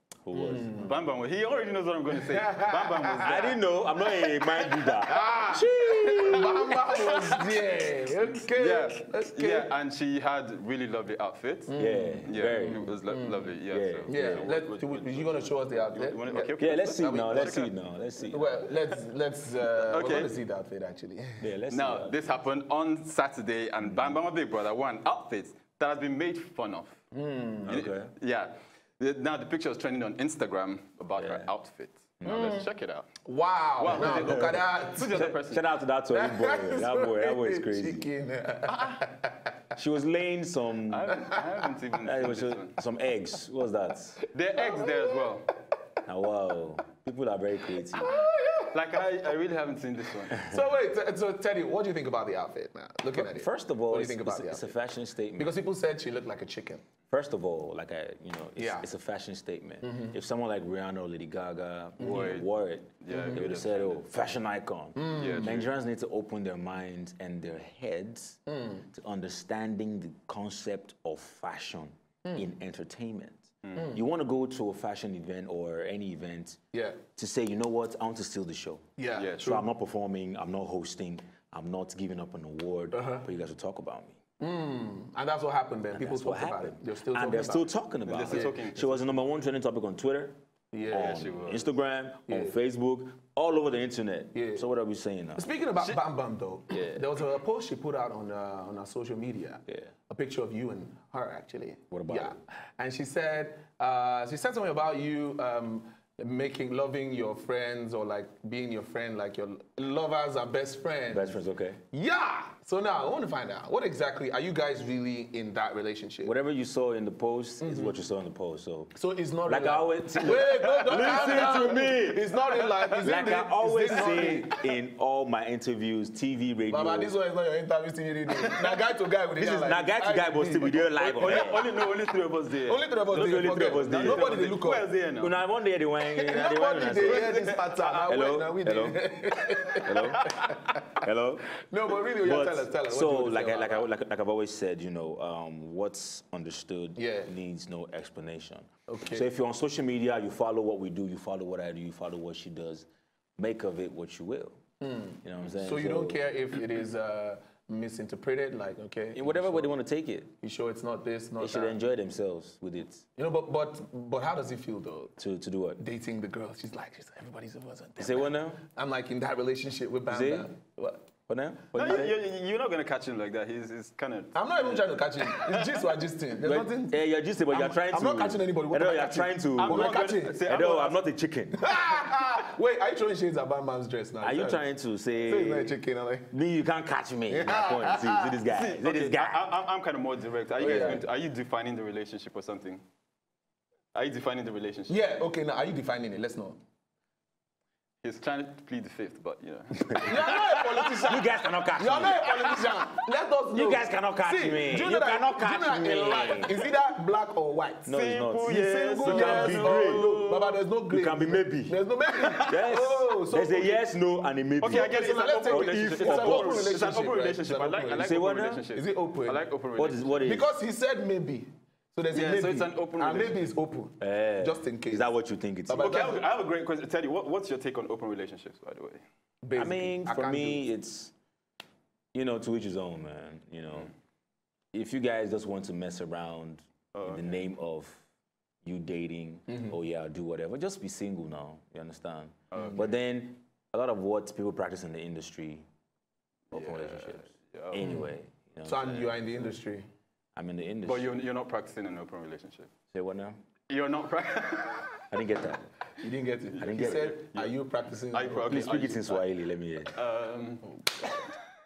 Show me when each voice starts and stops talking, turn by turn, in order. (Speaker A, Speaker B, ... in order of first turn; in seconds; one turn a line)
Speaker A: 0.2-0.8
Speaker B: 0.3-0.9
Speaker C: 0.7-3.6
Speaker B: 2.2-3.4
Speaker A: 3.1-6.7
Speaker B: 4.7-9.7
Speaker C: 5.8-7.5
Speaker C: 8.5-11.7
Speaker B: 11.7-13.5
Speaker A: 11.8-12.9
Speaker C: 12.2-17.7
Speaker A: 13.7-14.5
Speaker B: 14.1-17.6
Speaker A: 16.6-18.5
Speaker B: 18.3-21.5
Speaker C: 19.9-20.3
Speaker A: 21.4-22.2
Speaker C: 21.7-26.9
Speaker B: 27.1-27.8
Speaker A: 27.6-28.1
Speaker C: 27.6-33.1
Speaker A: 31.2-31.5
Speaker A: 32.2-32.6
Speaker B: 33.2-35.3
Speaker C: 33.8-35.6
Speaker A: 33.9-34.5
Speaker A: 35.1-38.1
Speaker B: 36.1-39.5
Speaker C: 38.7-39.0
Speaker A: 39.8-41.2
Speaker C: 40.9-42.8
Speaker B: 41.1-41.4
Speaker A: 42.0-44.2
Speaker C: 44.3-45.5
Speaker B: 44.5-45.2
Speaker A: 46.0-48.2
Speaker B: 47.9-48.8
Speaker C: 48.7-50.4
Speaker B: 50.3-54.8
Speaker A: 53.1-55.5
Speaker B: 55.4-56.8
Speaker A: 57.1-76.6
Speaker B: 58.5-58.9
Speaker B: 59.8-60.1
Speaker B: 62.0-62.3
Speaker C: 62.0-62.5
Speaker C: 63.0-64.0
Speaker B: 63.1-63.4
Speaker B: 64.9-65.6
Speaker C: 65.1-65.7
Speaker B: 68.5-68.8
Speaker B: 76.7-77.0
Speaker A: 77.2-78.8
Speaker B: 79.0-79.5
Speaker C: 79.2-79.6
Speaker A: 79.4-84.2
Speaker B: 82.9-83.2
Speaker B: 84.4-87.7
Speaker A: 85.9-90.3
Speaker C: 88.1-89.0
Speaker B: 88.3-88.5
Speaker B: 90.7-91.2
Speaker C: 90.9-91.7
Speaker A: 90.9-95.4
Speaker B: 92.3-92.5
Speaker B: 94.3-94.7
Speaker B: 95.3-111.4
Speaker A: 96.7-97.0
Speaker A: 101.9-102.3
Speaker A: 111.1-111.8
Speaker B: 111.9-116.3
Speaker A: 116.2-118.9
Speaker B: 117.6-118.0
Speaker B: 118.9-124.6
Speaker A: 119.4-122.2
Speaker C: 120.9-123.1
Speaker A: 123.0-127.1
Speaker B: 126.7-131.6
Speaker A: 129.4-131.6
Speaker C: 131.0-135.4
Speaker B: 132.6-134.9
Speaker A: 133.1-134.4
Speaker A: 135.2-137.5
Speaker B: 136.1-141.0
Speaker C: 137.0-138.2
Speaker A: 138.1-139.1
Speaker A: 139.7-141.4
Speaker B: 141.6-143.9
Speaker A: 142.2-152.8
Speaker B: 146.9-147.3
Speaker B: 148.9-149.2
Speaker A: 153.4-154.6
Speaker B: 154.8-159.7
Speaker A: 155.2-156.2
Speaker A: 159.1-160.3
Speaker B: 160.4-161.8
Speaker A: 161.4-163.0
Speaker B: 163.1-165.1
Speaker A: 165.2-165.8
Speaker B: 165.8-171.1
Speaker A: 168.0-168.6
Speaker A: 170.1-170.5
Speaker A: 171.3-172.2
Speaker C: 171.7-175.9
Speaker B: 174.3-180.4
Speaker A: 176.4-181.6
Speaker C: 179.6-181.0
Speaker B: 181.5-184.7
Speaker A: 184.2-185.8
Speaker B: 185.2-186.3
Speaker A: 186.3-189.5
Speaker B: 187.3-188.4
Speaker C: 188.5-192.8
Speaker B: 190.6-191.0
Speaker A: 190.6-191.0
Speaker C: 193.9-195.0
Speaker B: 194.9-196.6
Speaker C: 198.0-200.4
Speaker A: 199.9-202.6
Speaker B: 200.0-207.9
Speaker A: 203.5-206.7
Speaker A: 207.8-210.3
Speaker C: 207.9-210.6
Speaker B: 208.5-213.8
Speaker A: 210.9-211.7
Speaker A: 212.3-216.7
Speaker C: 214.6-220.2
Speaker B: 214.6-218.1
Speaker A: 217.9-218.6
Speaker B: 218.7-219.4
Speaker A: 219.8-220.5
Speaker B: 220.2-225.1
Speaker C: 222.1-223.4
Speaker A: 224.0-226.0
Speaker B: 225.7-226.2
Speaker C: 225.8-229.0
Speaker B: 229.4-230.6
Speaker A: 229.6-231.1
Speaker A: 232.1-233.9
Speaker A: 234.7-238.0
Speaker C: 236.9-237.4
Speaker A: 238.6-245.6
Speaker C: 242.5-242.9
Speaker C: 246.5-247.8
Speaker A: 246.5-249.1
Speaker B: 248.6-249.9
Speaker A: 250.3-251.1
Speaker C: 250.8-252.7
Speaker A: 252.9-253.4
Speaker C: 253.7-255.0
Speaker A: 255.1-255.7
Speaker B: 256.0-258.8
Speaker A: 256.6-257.1
Speaker C: 256.6-257.6
Speaker C: 258.1-259.3
Speaker A: 258.5-259.9
Speaker C: 259.9-261.2